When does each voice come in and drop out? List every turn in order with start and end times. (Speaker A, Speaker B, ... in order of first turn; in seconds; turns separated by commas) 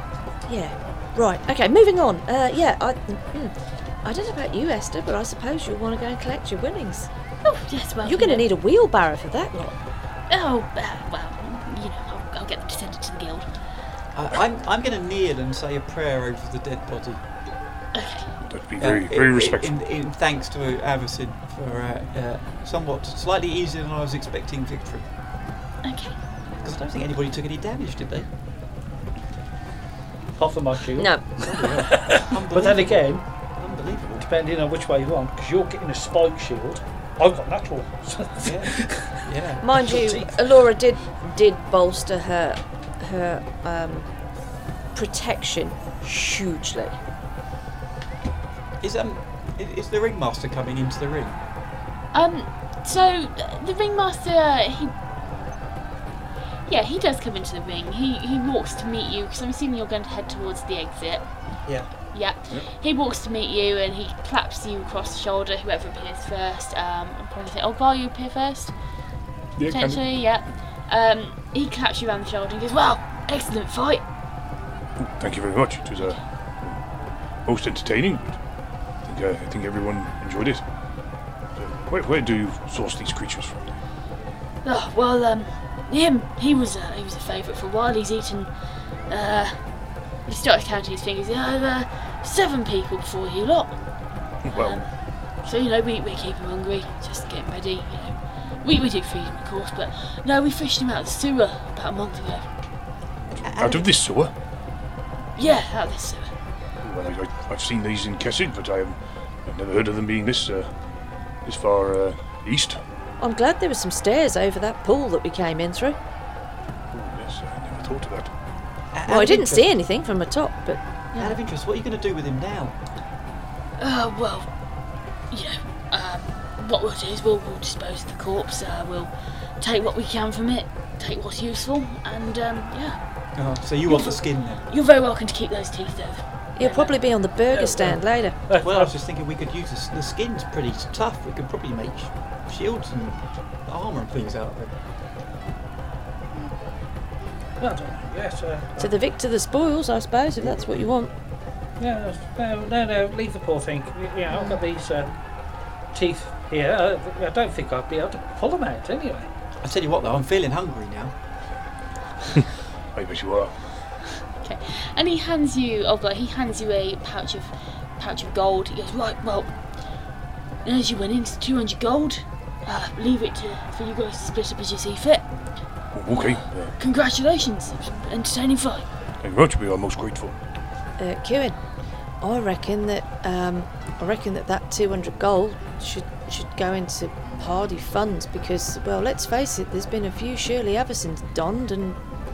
Speaker A: 0.5-7.1, Speaker B: 7.4-8.5, Speaker A: 8.0-9.8, Speaker B: 10.3-13.5, Speaker C: 14.1-17.2, Speaker B: 17.9-18.3, Speaker D: 18.4-19.7, Speaker C: 18.8-25.0, Speaker B: 25.8-26.1, Speaker C: 26.6-28.3, Speaker E: 30.4-33.2, Speaker A: 30.9-31.2, Speaker C: 31.4-33.0, Speaker C: 33.6-34.2, Speaker E: 34.2-39.2, Speaker C: 38.4-39.6, Speaker A: 39.6-44.1, Speaker E: 39.9-40.3, Speaker A: 44.9-47.0, Speaker C: 48.8-51.4, Speaker B: 52.1-54.9, Speaker B: 56.7-61.2, Speaker B: 62.1-68.7, Speaker D: 69.6-70.0, Speaker B: 69.7-74.0, Speaker D: 75.0-76.8, Speaker D: 77.4-78.4, Speaker D: 79.0-80.6, Speaker D: 81.5-83.6, Speaker B: 84.6-88.5, Speaker B: 89.1-89.6, Speaker B: 90.2-93.8, Speaker D: 94.4-94.8, Speaker B: 94.5-94.9, Speaker B: 95.4-102.5, Speaker C: 103.4-103.9, Speaker D: 103.5-104.3, Speaker B: 105.3-106.3, Speaker D: 106.8-110.7, Speaker D: 111.4-112.8, Speaker A: 113.2-116.0, Speaker D: 116.9-118.3, Speaker C: 118.9-119.7, Speaker A: 119.0-120.8, Speaker C: 121.2-122.8, Speaker B: 123.8-124.5, Speaker B: 125.3-133.0, Speaker C: 133.4-134.6, Speaker B: 133.8-136.9, Speaker A: 136.6-138.4, Speaker E: 137.5-138.9, Speaker C: 138.6-144.7, Speaker E: 147.6-148.9, Speaker A: 148.8-151.1, Speaker E: 151.8-155.1, Speaker A: 154.3-154.6, Speaker E: 155.9-159.3, Speaker C: 159.6-161.1, Speaker D: 162.9-163.5, Speaker B: 164.4-169.5, Speaker B: 170.6-175.2, Speaker D: 175.9-176.7, Speaker B: 176.1-178.8, Speaker D: 179.2-180.3, Speaker A: 181.0-181.6, Speaker A: 182.2-192.0